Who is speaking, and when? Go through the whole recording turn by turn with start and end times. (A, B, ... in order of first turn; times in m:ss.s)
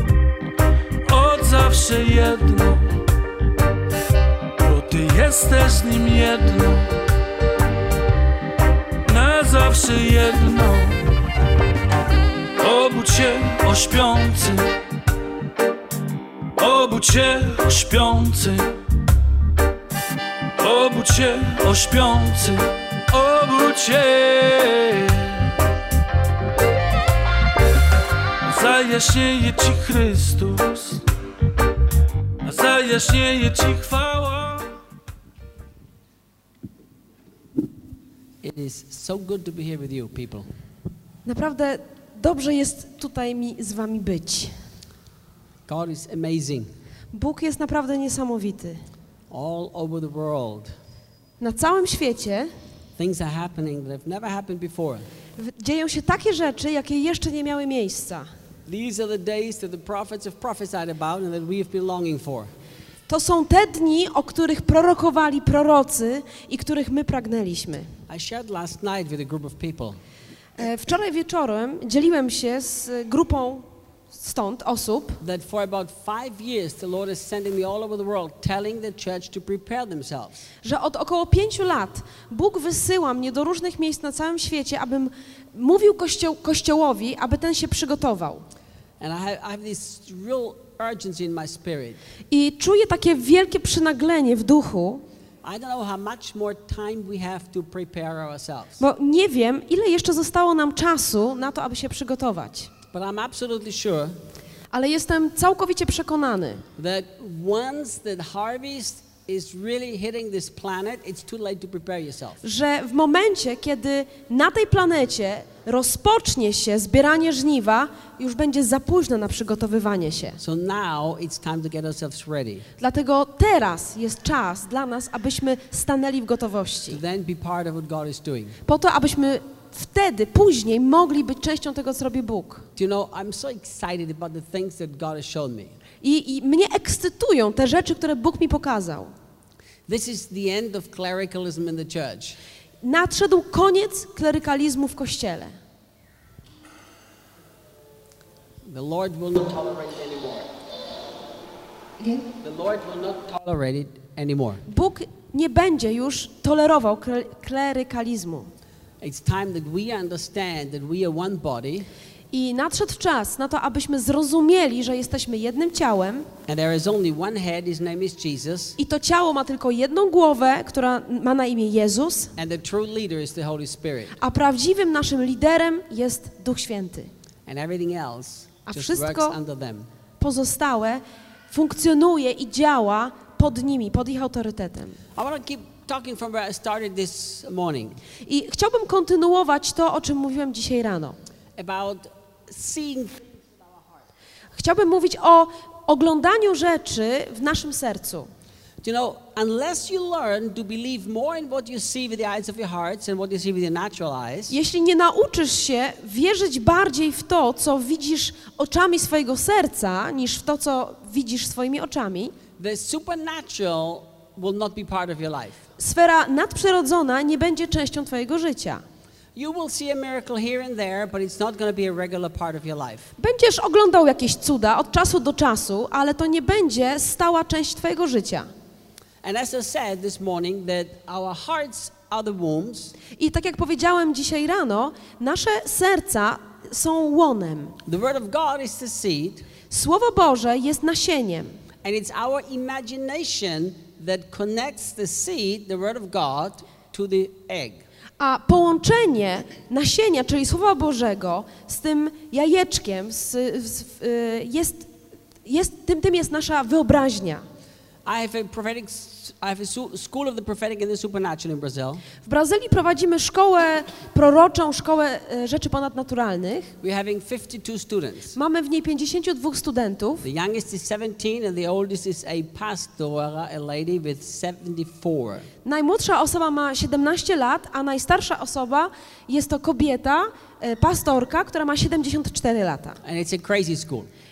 0:01.0-0:03.0 A
0:04.6-0:06.9 A
0:09.0-0:11.1 A
0:12.6-0:14.7 A
0:16.6-0:18.8 A
0:20.6-0:25.5 A
0:28.5-0:31.0 A
0:32.4-0:34.8 A
0:38.4-0:40.5 B
0:41.2-0:44.6 C
0:45.7-0:46.7 B
0:47.1-0:48.8 C
0:49.3-0:50.7 B
0:51.4-0:52.5 C
0:53.0-0:55.0 B
0:55.4-0:58.3 C
0:58.6-1:02.5 B
1:03.1-1:07.9 C
1:08.1-1:10.0 B
1:10.6-1:15.2 C
1:15.2-1:20.4 B
1:20.6-1:28.4 C
1:29.0-1:32.0 B
1:32.3-1:35.0 C
1:35.4-1:38.8 B
1:38.8-1:42.7 C
1:42.9-1:44.2 B
1:44.7-1:46.6 C
1:46.8-1:52.4 B
1:52.4-2:00.4 C
2:00.4-2:02.7 B
2:02.8-2:07.0 C
2:06.9-2:08.6 B
2:08.6-2:12.6 C
2:12.8-2:15.7 B
2:16.0-2:19.1 C
2:19.9-2:22.4 B
2:22.8-2:25.5 C
2:28.6-2:30.5 B
2:32.0-2:32.2 C
2:32.4-2:34.6 B
2:34.7-2:38.5 C
2:39.0-2:41.9 B
2:42.3-2:46.3 C
2:46.5-2:48.8 B
2:48.8-2:52.3 C
2:52.4-2:54.2 B
2:54.2-2:57.1 C
2:57.4-2:59.9 B
2:58.6-2:59.4 C
3:00.2-3:05.0 C
3:05.1-3:08.0 B
3:08.2-3:11.2 C
3:11.6-3:13.9 B
3:14.5-3:18.3 C
3:18.8-3:24.5 B
3:24.5-3:32.3 C
3:32.6-3:35.6 B
3:35.8-3:38.8 C
3:39.3-3:43.1 B
3:43.2-3:48.5 C
3:49.2-3:52.9 B
3:53.2-3:57.8 C
3:57.8-3:59.4 B
3:59.7-4:01.6 C
4:01.8-4:07.8 B
4:08.2-4:14.9 C
4:15.4-4:17.4 C
4:18.0-4:22.0 B
4:22.2-4:26.7 C
4:26.8-4:28.4 B
4:28.4-4:30.2 C
4:30.2-4:35.5 B
4:35.6-4:43.0 C
4:43.0-4:44.1 B